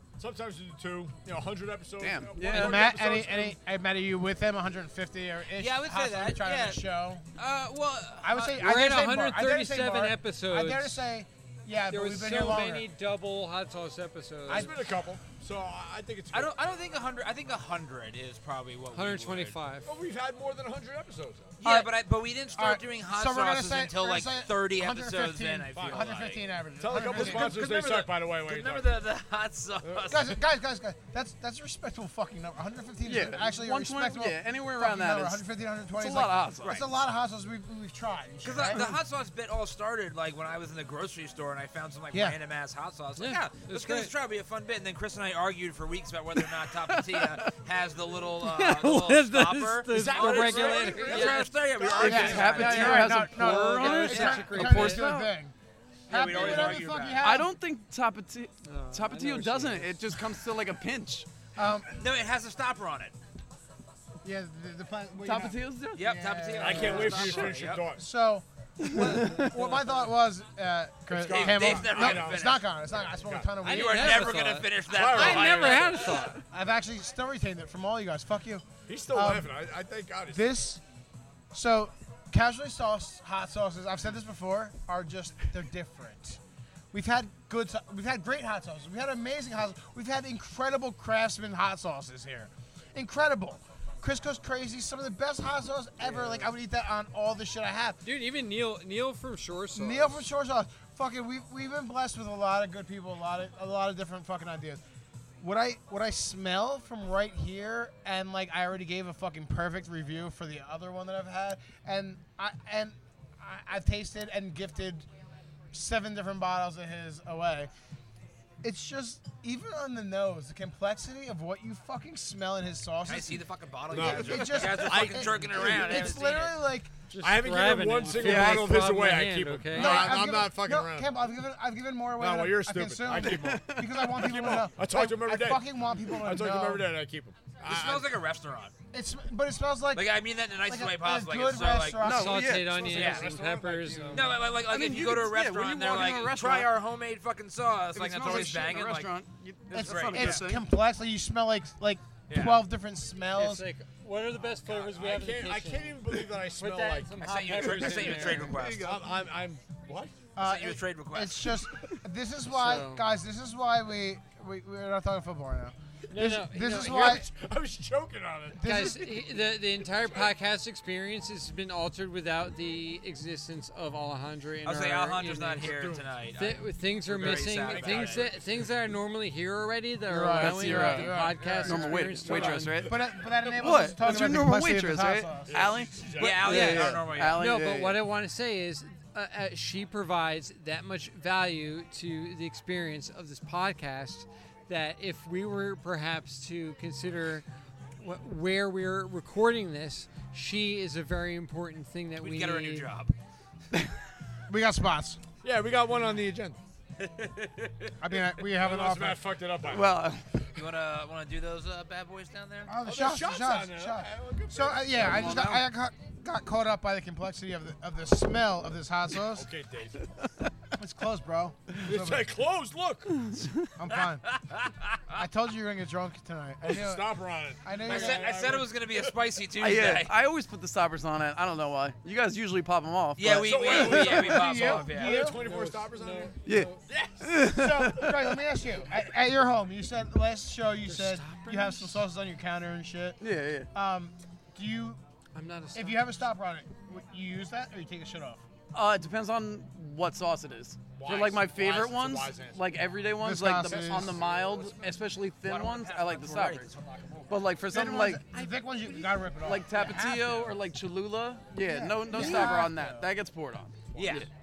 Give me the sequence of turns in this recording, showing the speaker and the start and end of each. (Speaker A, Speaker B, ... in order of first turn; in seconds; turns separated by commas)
Speaker A: 0.2-3.6, Speaker B: 2.0-2.9, Speaker C: 2.5-7.2, Speaker D: 5.5-6.8, Speaker D: 7.4-8.6, Speaker C: 8.2-12.9, Speaker E: 8.6-11.0, Speaker E: 11.9-14.7, Speaker A: 14.4-16.5, Speaker D: 16.3-19.5, Speaker E: 18.9-19.9, Speaker A: 19.8-21.6, Speaker D: 21.6-30.4, Speaker C: 21.6-22.0, Speaker C: 22.5-27.6, Speaker A: 25.7-26.1, Speaker A: 26.8-29.0, Speaker A: 29.8-30.1, Speaker C: 30.1-39.0, Speaker B: 33.0-35.4, Speaker B: 36.0-36.8, Speaker D: 36.6-36.9, Speaker D: 38.4-53.1, Speaker C: 42.1-42.4, Speaker E: 43.1-44.1, Speaker B: 46.4-47.5, Speaker E: 48.4-51.5, Speaker A: 49.9-52.7, Speaker C: 52.0-55.5, Speaker B: 52.0-55.3, Speaker E: 52.7-55.1, Speaker D: 56.1-57.2, Speaker C: 56.1-57.5, Speaker B: 57.2-61.3, Speaker E: 58.6-60.1, Speaker C: 61.5-61.9, Speaker D: 62.0-63.1, Speaker C: 64.2-74.3, Speaker B: 65.2-66.0, Speaker D: 65.9-67.8, Speaker A: 66.6-68.0, Speaker B: 68.8-69.8, Speaker E: 69.4-69.8, Speaker A: 71.1-73.5, Speaker D: 71.2-72.7, Speaker E: 73.6-76.4, Speaker D: 73.6-76.1, Speaker A: 74.8-76.1, Speaker C: 76.5-79.5, Speaker A: 78.9-80.4, Speaker C: 80.3-80.8, Speaker C: 81.5-86.4, Speaker C: 86.9-98.0, Speaker E: 96.0-96.5, Speaker E: 98.0-100.2, Speaker C: 99.7-104.8, Speaker C: 105.4-115.1, Speaker C: 115.7-117.7, Speaker C: 118.6-126.9, Speaker D: 123.0-126.6, Speaker A: 123.9-126.1, Speaker B: 124.4-124.8, Speaker E: 127.1-130.0, Speaker A: 127.2-131.1, Speaker B: 128.1-128.8, Speaker C: 129.7-136.9, Speaker A: 132.2-138.2, Speaker B: 133.2-134.2, Speaker D: 137.6-138.7, Speaker C: 138.9-142.7, Speaker D: 139.9-142.1, Speaker B: 142.0-142.9, Speaker E: 142.0-144.3, Speaker A: 142.6-144.4, Speaker D: 142.9-143.3, Speaker D: 144.1-149.1, Speaker B: 144.5-146.7, Speaker B: 147.9-150.6, Speaker D: 149.7-150.5, Speaker C: 149.7-153.6, Speaker D: 152.3-152.6, Speaker E: 153.3-158.5, Speaker A: 154.6-160.2, Speaker D: 157.2-159.0, Speaker C: 160.3-167.3, Speaker D: 160.4-161.5, Speaker E: 162.5-163.1, Speaker E: 166.1-167.2, Speaker A: 166.8-170.3, Speaker C: 168.5-169.1, Speaker E: 168.6-175.7, Speaker D: 174.6-178.3, Speaker A: 175.6-176.1, Speaker E: 176.4-182.8, Speaker A: 177.1-178.7, Speaker C: 180.1-182.0, Speaker B: 180.3-188.0, Speaker A: 181.4-182.9, Speaker C: 182.8-185.6, Speaker A: 184.0-184.4, Speaker A: 185.4-187.0, Speaker D: 186.2-187.4, Speaker E: 186.5-197.4, Speaker E: 198.0-202.9, Speaker D: 202.2-203.1, Speaker C: 204.5-205.2, Speaker A: 205.4-206.6, Speaker D: 207.0-207.9, Speaker C: 208.0-209.2, Speaker A: 208.6-210.0, Speaker B: 209.7-210.4, Speaker D: 210.6-212.7, Speaker C: 212.7-219.5, Speaker A: 212.8-215.4, Speaker B: 215.0-215.7, Speaker A: 219.3-220.0, Speaker C: 220.8-222.3, Speaker A: 221.8-223.3, Speaker C: 223.8-224.2, Speaker D: 224.2-225.2, Speaker C: 225.2-228.3, Speaker A: 226.6-229.1, Speaker D: 227.8-230.1, Speaker B: 229.5-234.8, Speaker D: 233.2-235.3, Speaker A: 233.2-236.3, Speaker C: 234.1-235.4, Speaker E: 235.4-236.8, Speaker B: 236.4-238.4, Speaker A: 236.9-237.4, Speaker C: 237.4-243.2, Speaker E: 240.8-242.0, Speaker B: 243.2-243.7, Speaker C: 243.7-245.0, Speaker E: 245.3-246.2, Speaker C: 245.7-248.4, Speaker B: 248.7-256.7, Speaker A: 250.9-252.8, Speaker C: 253.2-254.2, Speaker A: 253.7-254.8, Speaker D: 255.4-257.5, Speaker B: 257.3-258.2, Speaker C: 257.7-260.5, Speaker B: 259.4-264.3, Speaker C: 261.6-263.1, Speaker D: 262.1-262.6, Speaker A: 263.9-264.2, Speaker D: 263.9-264.3